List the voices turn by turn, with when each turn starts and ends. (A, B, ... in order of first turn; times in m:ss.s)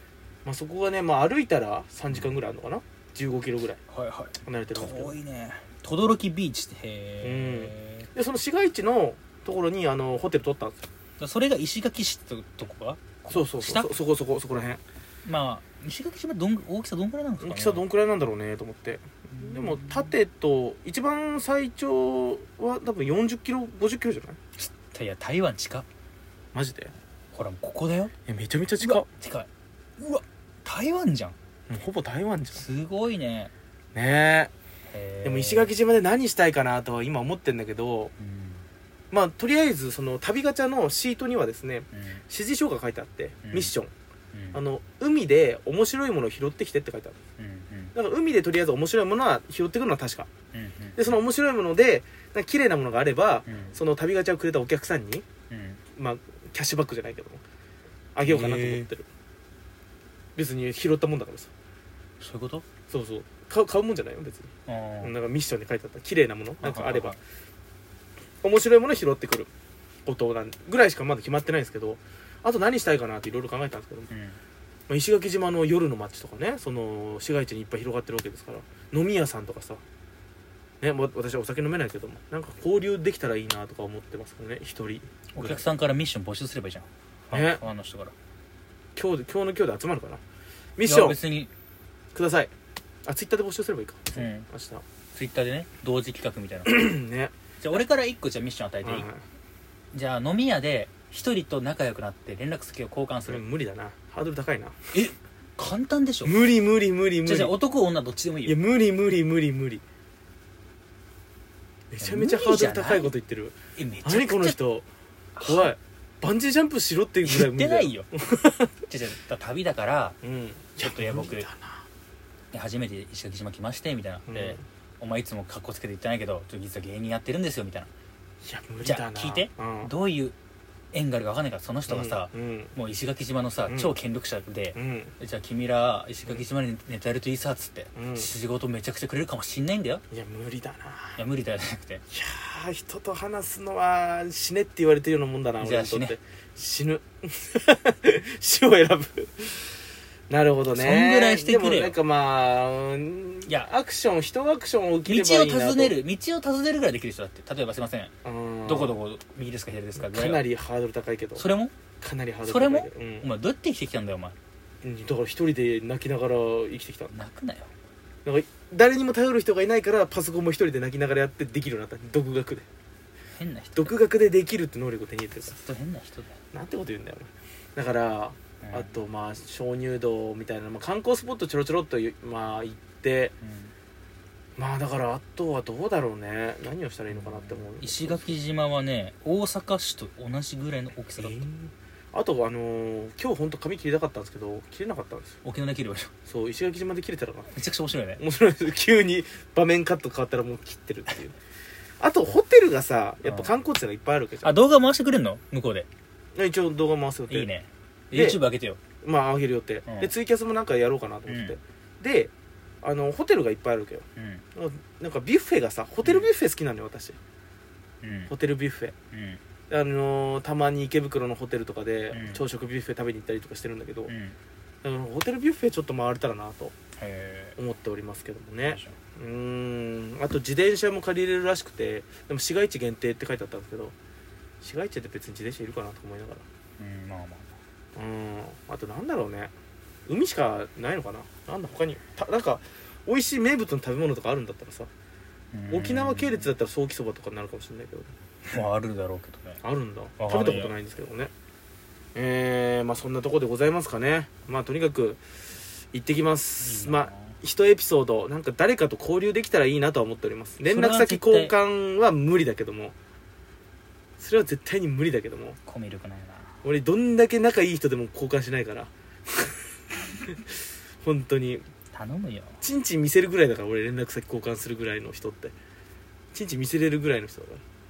0:00.4-0:03.8 A
0:03.9-0:08.1 B
0:04.4-0:05.2 A
0:07.2-0:10.8 A
0:11.2-0:13.9 B
0:13.3-0:14.8 A
0:15.2-0:17.8 B
0:17.4-0:24.4 A
0:19.3-0:20.1 B
0:24.6-0:25.9 B
0:26.5-0:26.9 A
0:27.3-0:28.1 B
0:28.3-0:29.1 A
0:28.8-0:31.4 B
0:31.7-0:32.6 A
0:32.6-0:33.5 B
0:34.0-0:34.5 A
0:34.9-0:35.7 B
0:35.2-0:38.1 A
0:38.2-0:38.6 B
0:39.1-0:43.9 A
0:41.9-0:42.2 B
0:43.4-0:43.7 B
0:44.3-0:44.6 B
0:44.5-0:47.2 A
0:47.4-0:47.9 B
0:47.9-0:50.3 A
0:50.5-0:51.2 B
0:51.0-0:55.2 A
0:53.5-0:53.8 B
0:55.5-0:55.8 B
0:56.0-0:57.4 A
0:58.2-0:59.1 A
0:58.2-0:58.9 B
1:00.4-1:01.5 A
1:02.2-1:02.6 B
1:02.9-1:04.5 A
1:04.7-1:05.1 B
1:05.0-1:07.2 A
1:06.6-1:07.2 B
1:08.4-1:09.5 A
1:10.1-1:14.1 A
1:14.1-1:14.4 B
1:14.9-1:19.8 A
1:20.8-1:25.7 A
1:25.3-1:28.1 B
1:27.3-1:27.6 A
1:29.0-1:30.2 A
1:30.8-1:31.2 A
1:30.8-1:31.5 B
1:32.1-1:32.5 A
1:33.0-1:34.8 A
1:34.2-1:34.5 B
1:35.1-1:36.9 B
1:36.7-1:37.3 A
1:37.6-1:39.1 B
1:38.8-1:39.2 A
1:39.9-1:43.4 B
1:43.3-1:44.9 A
1:44.9-1:46.5 B
1:46.2-1:47.6 A
1:47.2-1:48.6 B
1:48.5-1:49.8 A
1:51.9-1:54.9 A
1:52.0-1:53.1 B
1:53.8-1:54.6 B
1:55.4-1:55.7 B
1:55.4-1:58.7 A
1:57.2-1:58.1 B
1:58.9-2:00.2 B
2:00.2-2:01.9 A
2:00.8-2:01.5 B
2:02.5-2:07.9 B
2:04.3-2:04.6 A
2:08.4-2:09.9 A
2:08.8-2:10.4 B
2:10.9-2:20.0 B
2:11.9-2:12.7 A
2:13.7-2:13.9 A
2:14.8-2:15.1 A
2:18.0-2:18.3 A
2:20.1-2:21.2 A
2:21.2-2:22.0 B
2:22.1-2:29.7 A
2:25.6-2:26.2 B
2:30.3-2:36.0 A
2:30.7-2:32.0 B
2:33.5-2:33.7 B
2:35.0-2:38.1 B
2:38.2-2:39.0 A
2:38.6-2:40.4 B
2:40.0-2:41.4 A
2:41.4-2:41.7 B
2:42.0-2:43.3 A
2:42.4-2:44.4 B
2:44.8-2:47.1 A
2:47.1-2:47.7 B
2:48.2-2:52.7 A
2:53.3-2:54.0 B
2:53.8-2:55.6 A
2:55.5-2:56.3 B
2:56.5-3:03.3 A
2:58.6-2:58.9 B
3:03.4-3:03.7 B
3:04.6-3:08.4 A
3:07.1-3:11.4 B
3:11.2-3:15.4 A
3:15.4-3:16.1 B
3:16.3-3:17.5 A
3:17.5-3:18.2 B
3:18.2-3:21.4 A
3:22.0-3:24.5 A
3:23.2-3:23.5 B
3:24.4-3:25.9 B
3:26.4-3:27.5 A
3:27.3-3:28.8 B
3:28.1-3:28.4 A
3:29.0-3:32.3 A
3:31.3-3:31.6 B
3:32.8-3:37.2 A
3:34.2-3:34.4 B
3:38.0-3:38.3 B
3:38.3-3:38.9 A
3:39.1-3:39.4 B
3:39.7-3:44.1 A
3:42.1-3:42.4 B
3:44.1-3:44.4 B
3:44.8-3:46.7 A
3:47.0-3:47.6 B
3:47.6-3:53.9 A
3:48.6-3:49.0 B
3:54.6-3:56.4 A
3:56.8-3:57.5 B
3:58.0-3:59.5 A
4:00.1-4:04.9 A
4:05.5-4:06.5 B
4:05.7-4:08.1 A
4:08.4-4:09.6 B
4:09.6-4:11.3 A
4:10.2-4:10.7 B
4:12.2-4:15.2 A
4:15.9-4:22.9 A
4:16.6-4:17.4 B
4:20.6-4:21.6 B
4:24.2-4:25.6 A
4:25.7-4:26.6 B
4:26.6-4:29.6 A
4:31.0-4:31.6 A
4:31.9-4:32.6 B
4:32.6-4:35.5 A
4:36.3-4:37.6 A